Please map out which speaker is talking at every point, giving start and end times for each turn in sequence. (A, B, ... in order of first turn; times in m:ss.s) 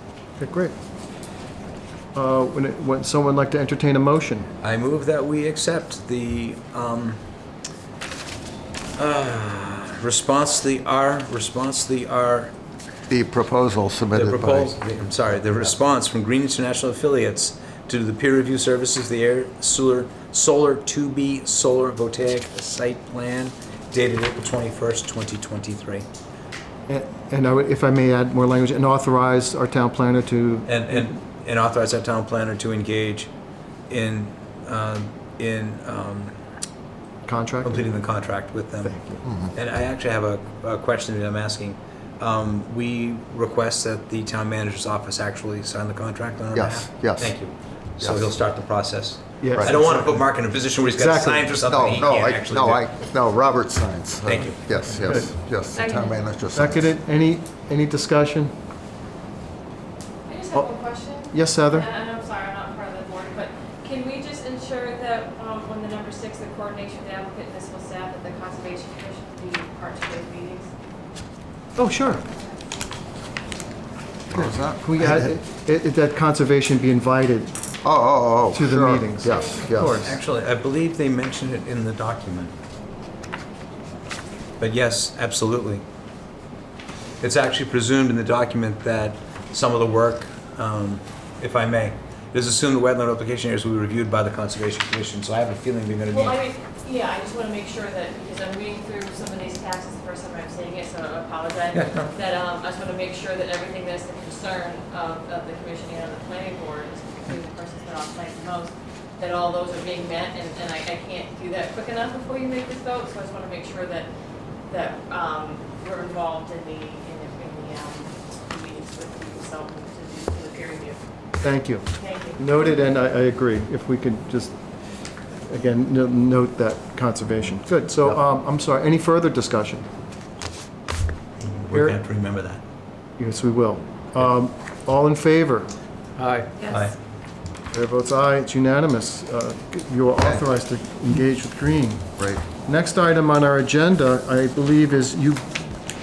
0:00.4-0:00.7 A
0:02.1-0:04.5 A
0:04.6-0:07.2 B
0:09.0-0:12.5 B
0:13.1-0:14.8 C
0:14.1-0:26.0 B
0:26.9-0:31.1 A
0:30.6-0:33.3 B
0:33.9-0:36.4 B
0:37.2-0:37.8 A
0:37.6-0:38.9 B
0:38.8-0:39.2 A
0:39.2-0:39.5 C
0:39.5-0:52.9 B
0:46.5-0:47.3 C
0:48.0-0:48.3 C
0:49.4-0:50.2 A
0:50.9-0:51.6 A
0:51.6-0:56.9 C
0:54.2-0:54.6 B
0:54.8-0:55.3 A
0:55.7-0:56.2 D
0:56.5-0:58.5 A
1:00.3-1:10.7 D
1:01.3-1:01.9 A
1:11.8-1:12.2 A
1:14.3-1:15.3 C
1:14.3-1:17.5 A
1:17.8-1:20.0 C
1:18.5-1:20.2 A
1:19.5-1:22.5 B
1:24.6-1:25.8 B
1:27.2-1:36.4 B
1:36.1-1:54.1 D
1:41.7-1:42.1 B
1:54.7-2:01.0 D
2:01.4-2:04.5 A
2:02.0-2:02.6 D
2:05.4-2:09.8 A
2:11.4-2:12.6 B
2:11.7-2:12.0 A
2:13.2-2:15.7 A
2:16.2-2:17.0 B
2:17.7-2:25.7 A
2:22.2-2:22.4 C